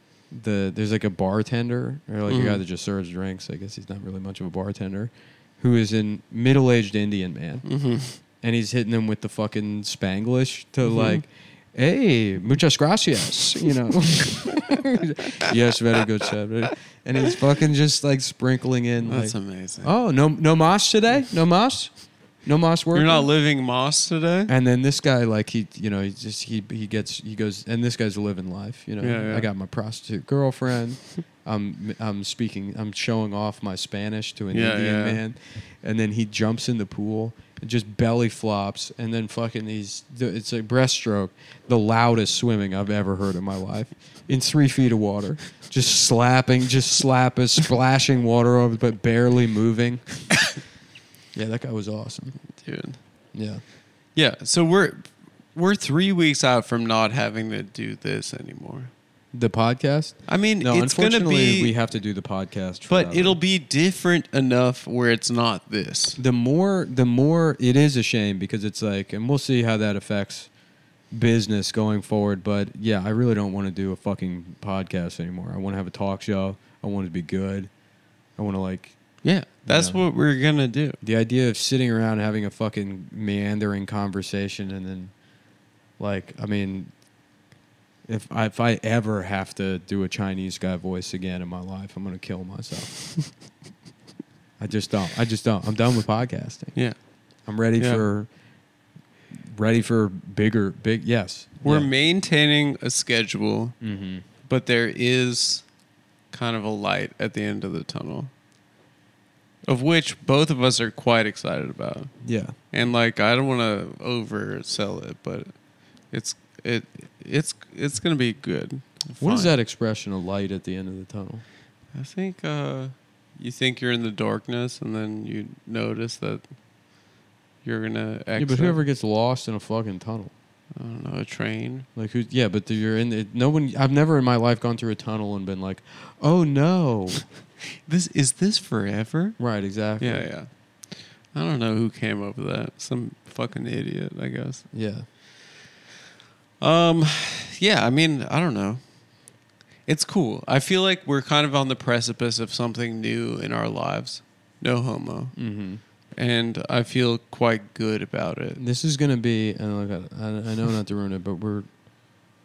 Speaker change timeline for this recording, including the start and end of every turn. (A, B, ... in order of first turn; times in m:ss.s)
0:00.3-0:07.7 A
0:02.3-0:02.6 B
0:07.6-0:08.2 B
0:08.4-0:23.3 A
0:10.8-0:11.2 B
0:19.1-0:19.9 B
0:22.9-0:24.5 B
0:24.5-0:50.3 A
0:29.0-0:29.5 B
0:34.5-0:35.2 B
0:51.3-0:52.4 A
0:52.6-0:53.0 B
0:53.3-0:53.6 A
0:54.2-0:58.9 B
0:59.3-1:03.4 A
1:00.3-1:01.7 B
1:02.9-1:06.2 B
1:06.2-1:10.5 A
1:11.1-1:17.7 A
1:18.4-1:19.0 A
1:19.2-1:21.0 B
1:19.7-1:20.0 A
1:21.0-1:25.1 A
1:26.0-1:26.9 A
1:28.1-1:33.0 A
1:34.6-1:36.8 A
1:37.5-1:38.3 A
1:37.8-1:38.0 B
1:39.3-1:41.9 A
1:41.6-1:43.8 B
1:43.8-1:44.2 A
1:44.4-1:45.6 B
1:46.3-1:48.3 B
1:49.7-1:52.1 B
1:52.2-1:52.6 A
1:52.7-1:55.5 B
1:56.1-1:59.5 B
1:59.2-2:01.4 A
2:01.9-2:06.4 B
2:07.6-2:08.8 B
2:08.4-2:10.3 A
2:10.8-2:11.9 B
2:12.0-2:17.2 A
2:17.9-2:19.4 B
2:19.4-2:20.3 A
2:20.0-2:20.5 B
2:21.3-2:24.6 B
2:24.7-2:25.1 A
2:26.6-2:28.8 B
2:29.9-2:35.3 B
2:35.4-2:35.8 A
2:36.2-2:38.6 B
2:38.6-2:41.7 A